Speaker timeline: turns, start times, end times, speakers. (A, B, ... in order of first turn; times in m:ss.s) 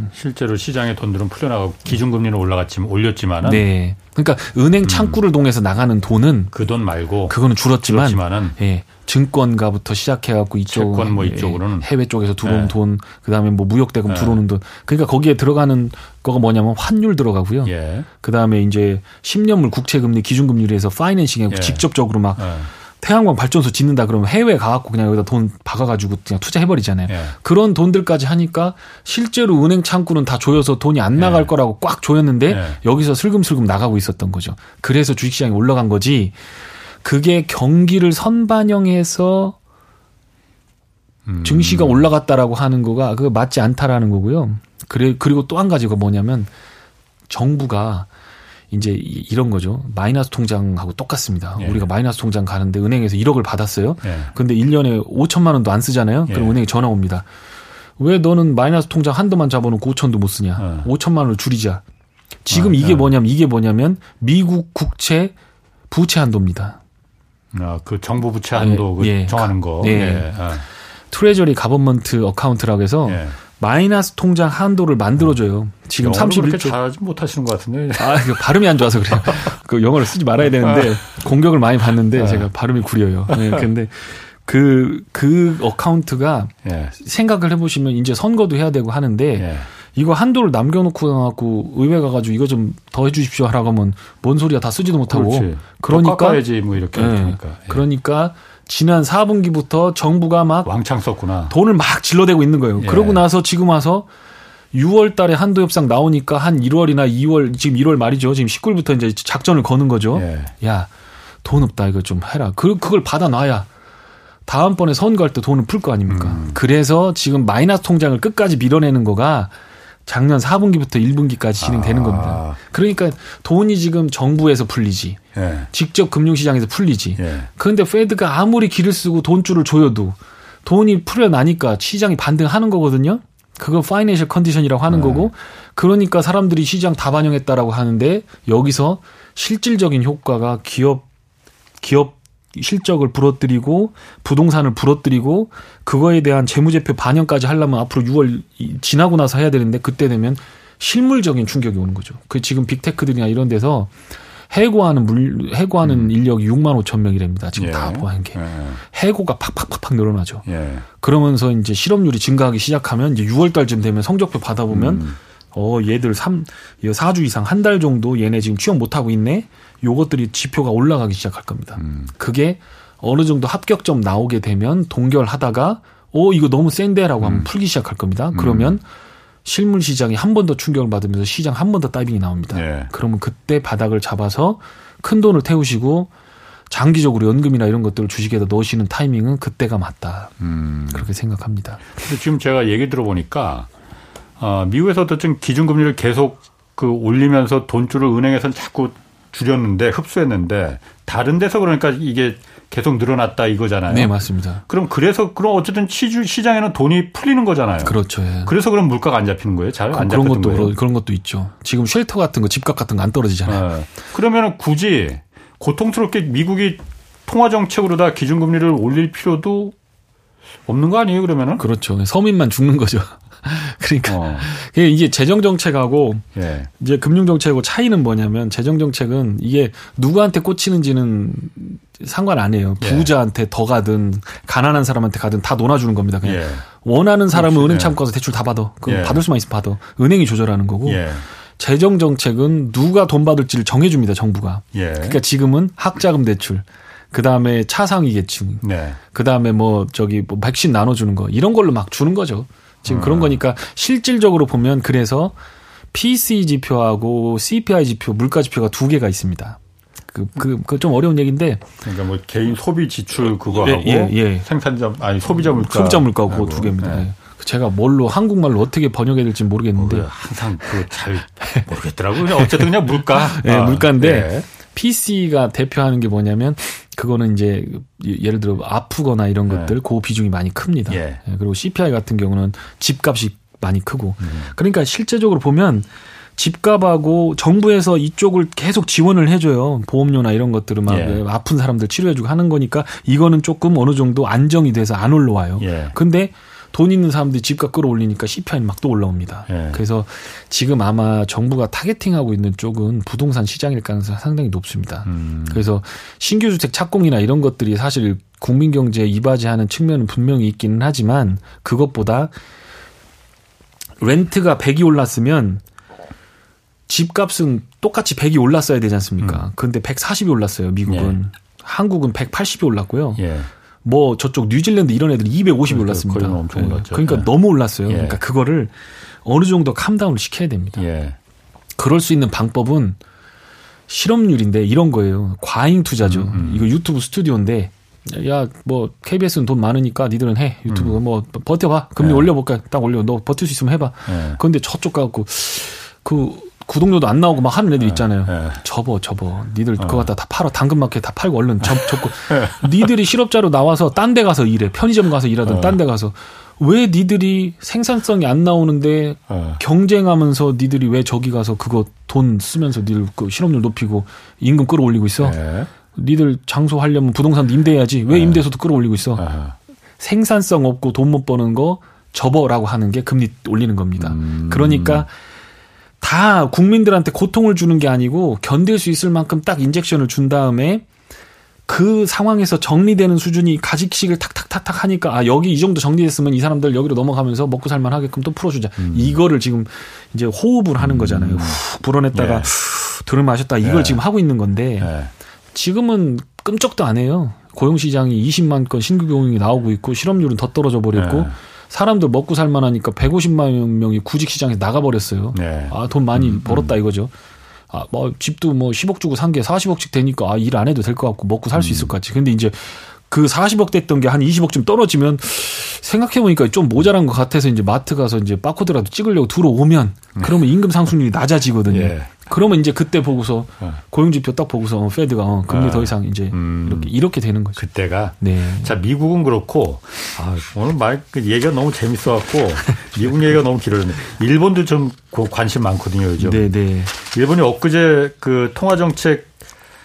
0:00.1-0:03.6 A
0:03.4-0:06.5 B
0:04.9-0:05.2 A
0:06.5-0:08.6 A
0:07.3-0:36.4 B
0:10.7-0:11.9 A
0:12.4-0:12.7 A
0:14.1-0:14.4 A
0:17.6-0:18.1 A
0:21.5-0:21.9 A
0:22.4-0:22.7 A
0:27.1-0:27.4 A
0:31.2-0:31.5 A
0:32.5-0:32.8 A
0:37.0-0:39.6 B
0:41.2-0:42.1 A
0:41.4-0:46.5 B
0:47.3-0:48.1 B
0:48.7-0:57.2 B
0:51.6-0:51.8 A
0:54.0-0:54.3 A
0:56.3-0:56.6 A
0:58.0-1:01.8 B
1:00.6-1:00.9 A
1:02.4-1:05.3 B
1:02.5-1:03.1 A
1:05.9-1:06.8 B
1:07.5-1:10.6 A
1:08.6-1:10.3 B
1:11.1-1:16.8 B
1:13.1-1:13.4 A
1:16.0-1:18.4 A
1:18.0-1:40.7 B
1:20.6-1:20.9 A
1:22.2-1:22.5 A
1:23.3-1:23.6 A
1:26.6-1:26.9 A
1:29.4-1:29.7 A
1:35.1-1:37.8 A
1:40.6-1:41.5 A
1:41.5-1:44.1 B
1:42.8-1:43.2 A
1:44.7-1:50.9 B
1:50.1-1:50.5 A
1:51.4-1:53.7 B
1:54.5-1:59.5 B
1:56.1-1:56.6 A
2:00.1-2:05.2 B
2:01.6-2:02.6 A
2:05.4-2:05.7 A
2:05.7-2:21.1 B
2:07.2-2:07.5 A
2:14.9-2:15.3 A
2:21.8-2:33.9 B
2:34.5-2:40.5 B
2:35.8-2:36.1 A
2:37.6-2:38.8 A
2:40.5-2:40.8 A
2:41.0-2:58.8 B
2:44.7-2:45.2 A
2:51.8-2:52.1 A
2:57.2-2:57.5 A
2:58.3-2:58.8 A
2:59.4-3:06.1 B
3:02.5-3:02.9 A
3:06.7-3:10.4 B
3:10.4-3:11.1 A
3:10.9-3:11.9 B
3:12.0-3:13.7 A
3:14.4-3:24.1 A
3:23.9-3:24.6 B
3:24.7-3:30.8 A
3:27.8-3:28.5 B
3:29.9-3:33.6 B
3:33.5-3:39.8 A
3:40.7-3:41.6 A
3:41.6-3:46.2 B
3:44.1-3:44.5 A
3:46.4-3:46.7 A
3:46.8-4:01.0 B
3:52.8-3:53.1 A
3:56.2-3:56.6 A
3:57.3-3:58.0 A
3:58.8-3:59.2 A
4:00.8-4:01.2 A
4:01.6-4:15.4 B
4:04.7-4:05.2 A
4:08.6-4:09.0 A
4:12.9-4:13.4 A
4:15.9-4:19.6 B
4:20.1-4:21.6 B
4:21.8-4:27.1 A
4:23.2-4:24.5 B
4:25.3-4:30.1 B
4:29.8-4:34.5 A
4:32.3-5:12.3 B
4:39.5-4:39.7 A
4:40.9-4:41.2 A
4:44.2-4:44.5 A
4:50.9-4:51.2 A
4:55.6-4:55.9 A
4:59.5-4:59.8 A
5:05.1-5:05.6 A
5:14.0-5:15.6 B
5:16.9-5:23.2 B
5:19.2-5:19.5 A
5:20.9-5:21.2 A
5:23.2-5:23.5 A
5:23.8-5:28.7 B
5:25.7-5:27.3 A
5:27.9-5:28.2 A
5:29.2-5:30.8 B
5:30.8-5:31.2 A
5:31.8-5:33.0 B
5:33.9-6:05.4 B
5:36.0-5:36.7 A
5:40.7-5:41.0 A
5:42.0-5:42.3 A
5:44.1-5:44.4 A
5:47.8-5:48.6 A
5:49.8-5:50.1 A
5:52.3-5:52.7 A
5:55.5-5:55.8 A
5:59.3-5:59.6 A
6:05.2-6:05.7 A
6:05.9-6:09.2 B
6:08.1-6:08.4 A
6:09.2-6:09.5 A
6:10.0-6:15.1 B
6:14.0-6:15.1 A
6:16.0-6:20.8 B
6:21.7-6:34.9 B
6:28.8-6:29.2 A
6:30.8-6:31.6 A
6:32.1-6:32.5 A
6:33.6-6:34.0 A
6:34.8-6:35.1 A
6:35.5-6:47.1 B
6:40.9-6:41.3 A
6:45.3-6:46.8 A
6:47.7-7:07.6 B
6:51.5-6:51.9 A
7:01.7-7:02.1 A
7:05.5-7:06.9 A
7:07.6-7:19.3 A
7:08.2-7:08.8 B
7:16.2-7:16.9 B